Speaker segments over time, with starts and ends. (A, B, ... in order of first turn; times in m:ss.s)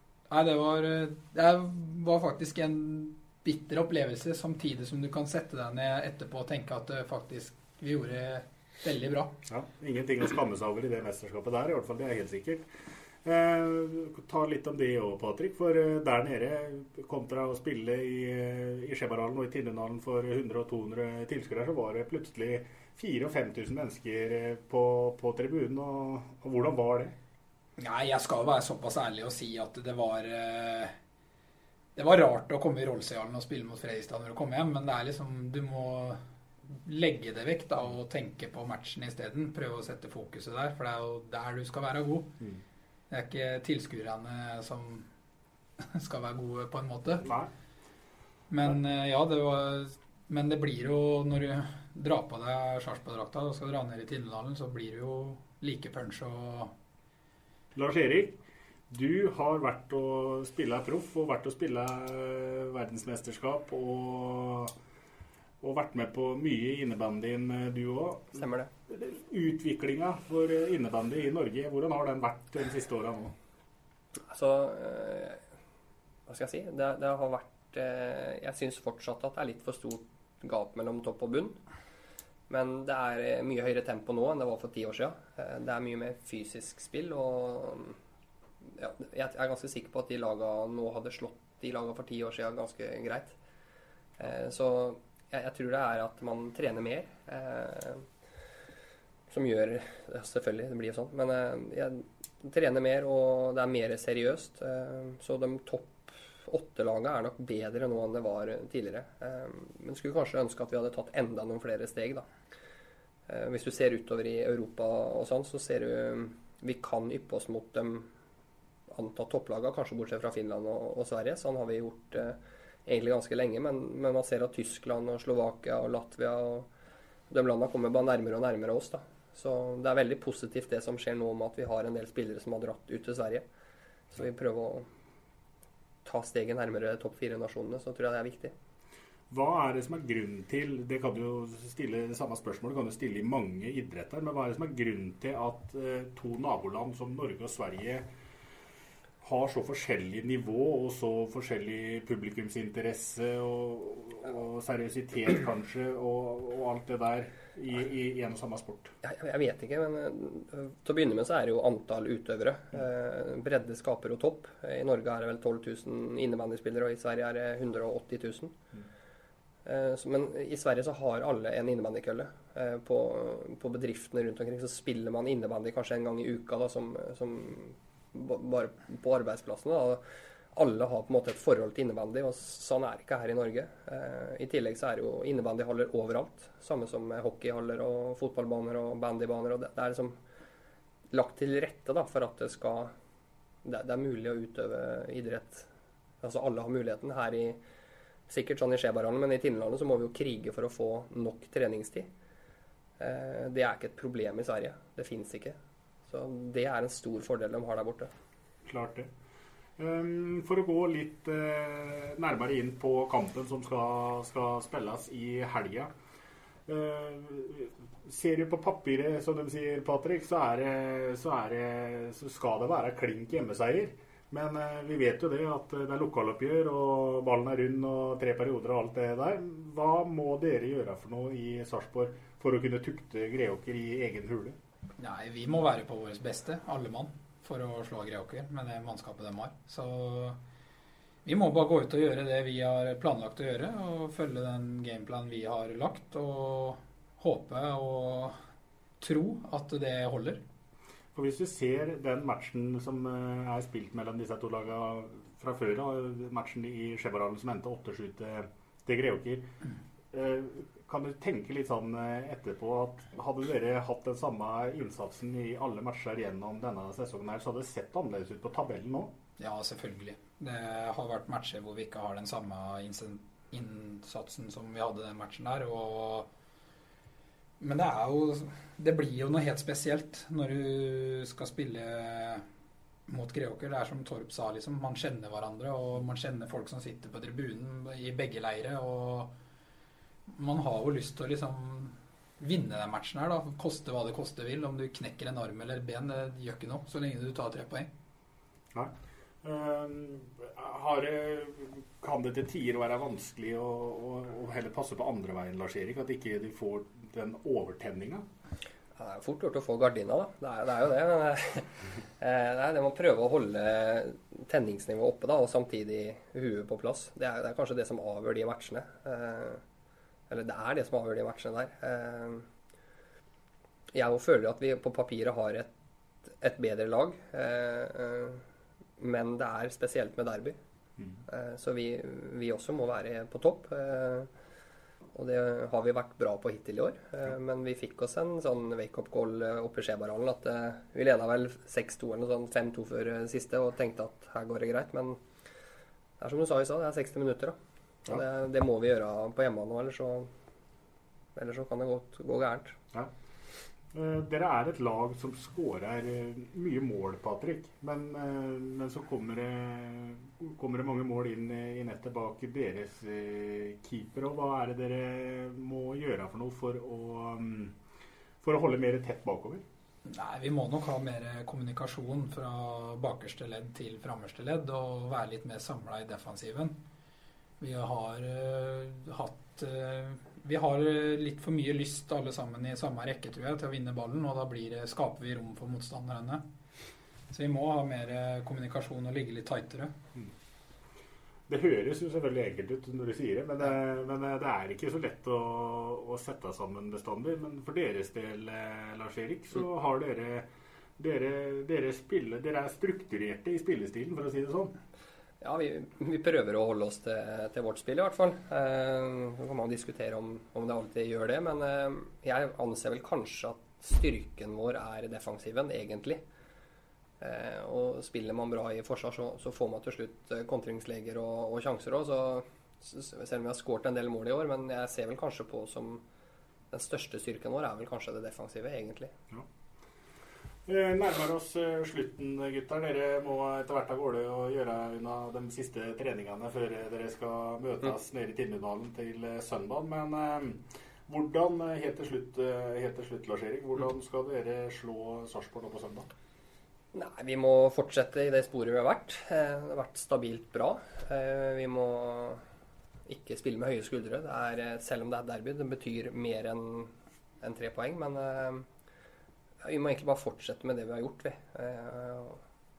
0:00.3-0:09.3 A
0:09.5-0:12.7 B
0:13.2-0:27.2 B
0:27.8-0:30.9 A
0:32.0-0:42.4 A
0:43.1-0:45.1 A
0:45.9-0:47.2 A
0:47.2-0:47.5 B
0:48.5-0:56.7 A
0:57.8-1:04.8 B
1:05.6-1:13.3 B
1:08.4-1:08.7 C
1:14.3-1:15.4 C
1:16.3-1:21.6 C
1:22.5-1:28.0 C
1:28.8-1:33.4 C
1:34.2-1:38.0 C
1:39.3-1:52.3 C
1:53.3-1:58.1 C
1:58.9-2:06.7 C
2:07.3-2:13.4 C
2:14.1-2:14.8 C
2:16.0-2:18.5 C
2:19.3-2:28.1 B
2:29.2-2:38.9 B
2:39.0-2:48.5 C
2:49.7-3:00.0 C
3:00.6-3:10.2 C
3:11.1-3:12.9 C
3:13.6-3:15.7 C
3:16.2-3:17.6 C
3:18.3-3:22.1 C
3:23.0-3:25.6 C
3:26.1-3:28.1 C
3:28.6-3:29.1 B
3:29.8-3:35.9 B
3:36.7-3:54.6 B
3:55.0-4:00.4 A
4:01.2-4:08.3 A
4:09.0-4:10.4 A
4:11.2-4:19.5 B
4:20.1-4:29.1 B
4:29.4-4:36.3 A
4:37.6-4:42.4 A
4:43.1-4:49.3 A
4:50.3-4:57.9 A
4:59.4-5:08.3 B
5:09.0-5:11.7 C
5:12.2-5:19.6 C
5:20.3-5:22.4 C
5:23.9-5:25.7 C
5:26.4-5:28.4 C
5:29.0-5:30.6 C
5:31.3-5:34.3 C
5:35.1-5:45.2 C
5:46.2-5:47.6 C
5:48.1-5:50.3 C
5:51.4-5:52.8 C
5:53.9-6:07.7 B
6:08.4-6:09.6 B
6:10.1-6:16.8 A
6:17.6-6:26.4 A
6:27.3-6:29.9 A
6:31.5-6:44.8 B
6:45.4-6:56.2 C
6:57.2-7:06.0 C
7:06.7-7:09.1 C
7:10.7-7:26.1 B
7:26.9-7:32.4 C
7:33.1-7:36.9 C
7:37.4-7:38.7 C
7:39.6-7:42.4 C